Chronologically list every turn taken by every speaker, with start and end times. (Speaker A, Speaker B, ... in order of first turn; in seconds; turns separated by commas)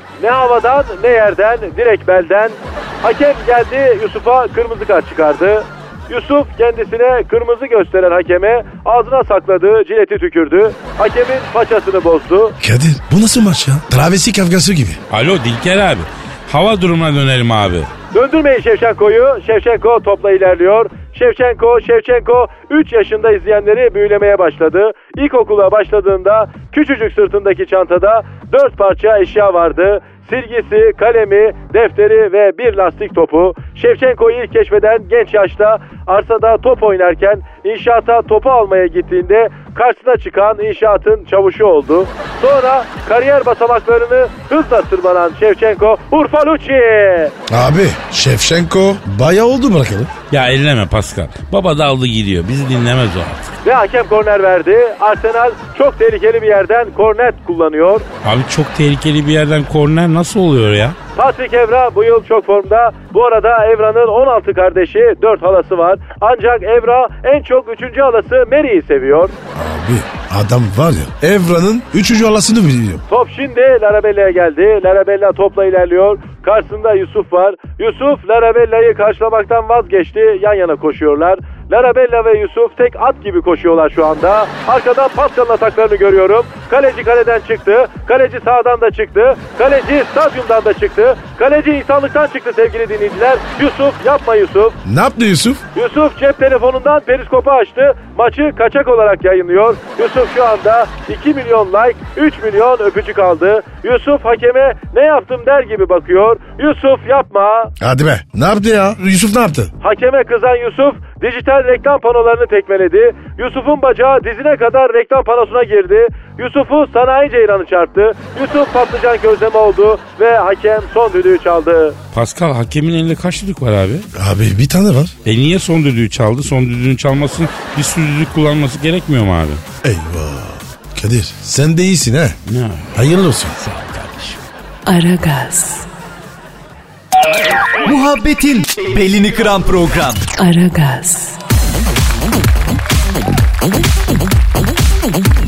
Speaker A: 0.2-12.6, Speaker B: 12.6-15.0, Speaker C: 15.1-17.9, Speaker A: 18.1-47.3, Speaker B: 47.5-50.1, Speaker C: 50.3-53.5, Speaker A: 53.6-58.0, Speaker C: 58.2-61.0, Speaker A: 61.2-69.3, Speaker B: 69.5-73.0, Speaker A: 73.1-94.8, Speaker B: 94.8-95.6, Speaker A: 95.7-107.7, Speaker B: 107.8-109.7, Speaker A: 109.8-122.0, Speaker C: 122.1-124.0, Speaker B: 124.1-125.1, Speaker C: 125.2-129.6, Speaker B: 129.8-132.4, Speaker C: 132.4-133.0, Speaker B: 132.9-133.6, Speaker C: 133.6-134.4, Speaker D: 134.8-135.9, Speaker E: 137.8-140.2, Speaker D: 140.4-141.4